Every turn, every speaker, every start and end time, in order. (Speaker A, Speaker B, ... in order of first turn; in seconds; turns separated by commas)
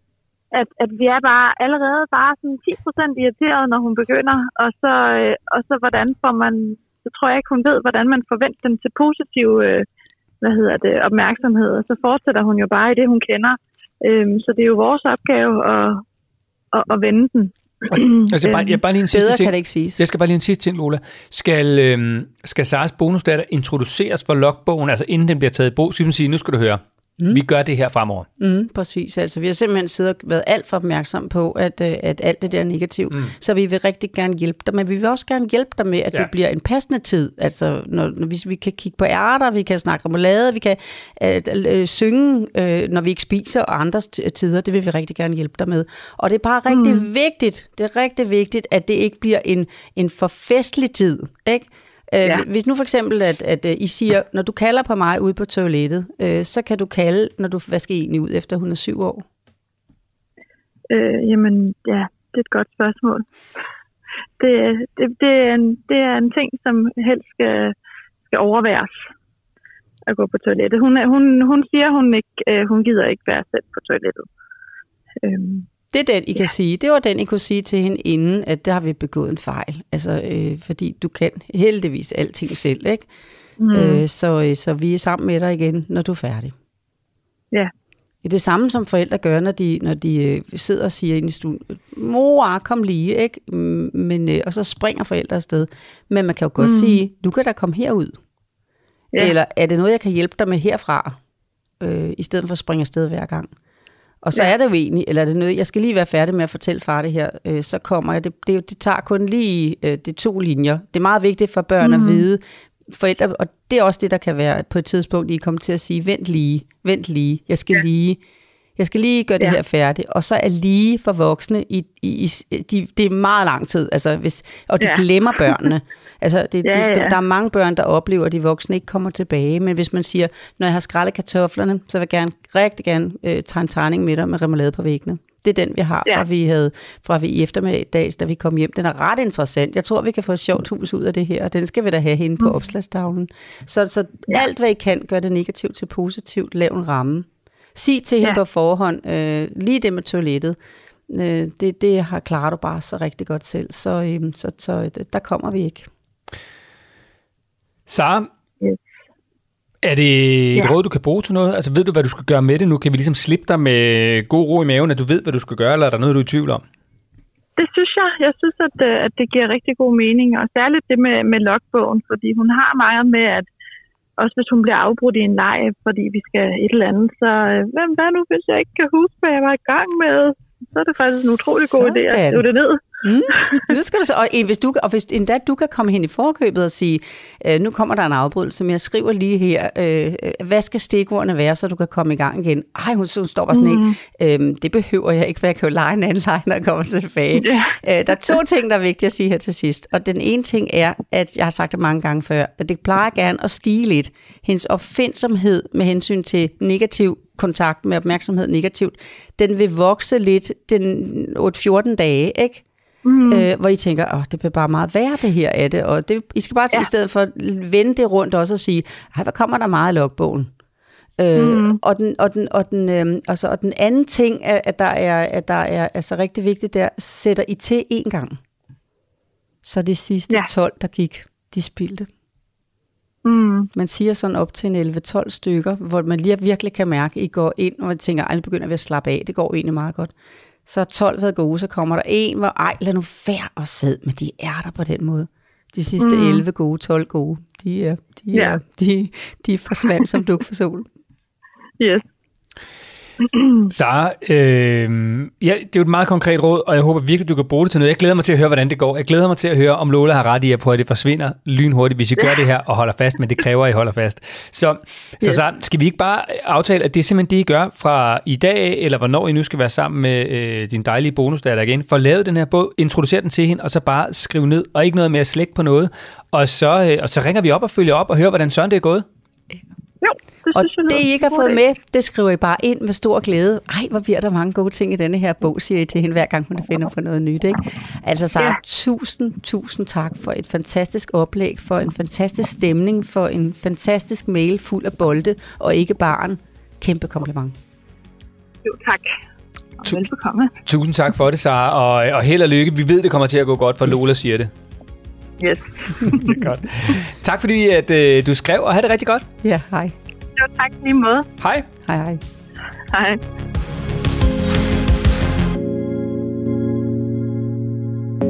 Speaker A: 0.5-9.9, Speaker A: 10.4-16.0, Speaker A: 16.7-18.8, Speaker B: 17.9-28.3, Speaker C: 19.1-20.0, Speaker C: 28.4-59.3, Speaker A: 46.7-47.1, Speaker A: 60.9-63.2, Speaker A: 64.4-67.7, Speaker A: 68.3-69.1, Speaker A: 70.1-74.3, Speaker A: 75.2-75.7, Speaker C: 75.9-83.1, Speaker A: 83.6-84.0, Speaker C: 83.7-86.5, Speaker C: 88.2-98.2, Speaker A: 96.6-97.0, Speaker C: 99.2-101.2, Speaker C: 101.8-103.5, Speaker C: 104.2-118.2, Speaker A: 111.8-112.3, Speaker C: 118.8-150.6, Speaker A: 124.8-125.5, Speaker A: 126.6-127.2, Speaker C: 151.1-155.9, Speaker B: 157.9-158.3, Speaker B: 159.8-166.6, Speaker A: 167.6-173.5, Speaker A: 174.2-183.7, Speaker C: 181.2-182.5, Speaker C: 183.0-212.6, Speaker A: 193.5-194.0, Speaker A: 197.4-197.8, Speaker A: 213.1-213.5, Speaker C: 213.3-220.5, Speaker C: 221.2-228.4, Speaker A: 221.4-221.8, Speaker C: 229.7-232.1, Speaker A: 233.2-233.7, Speaker C: 233.8-240.1, Speaker C: 240.7-250.9, Speaker A: 246.0-246.4, Speaker A: 251.8-252.1, Speaker A: 253.2-253.7, Speaker B: 253.7-279.1, Speaker A: 280.0-281.6, Speaker C: 280.5-297.6, Speaker A: 298.6-299.1, Speaker A: 299.8-300.6, Speaker B: 300.6-304.5, Speaker A: 305.4-306.4, Speaker B: 306.1-309.3, Speaker C: 309.4-309.9, Speaker A: 310.4-311.3, Speaker B: 311.4-311.7, Speaker C: 311.9-312.2, Speaker A: 312.9-313.2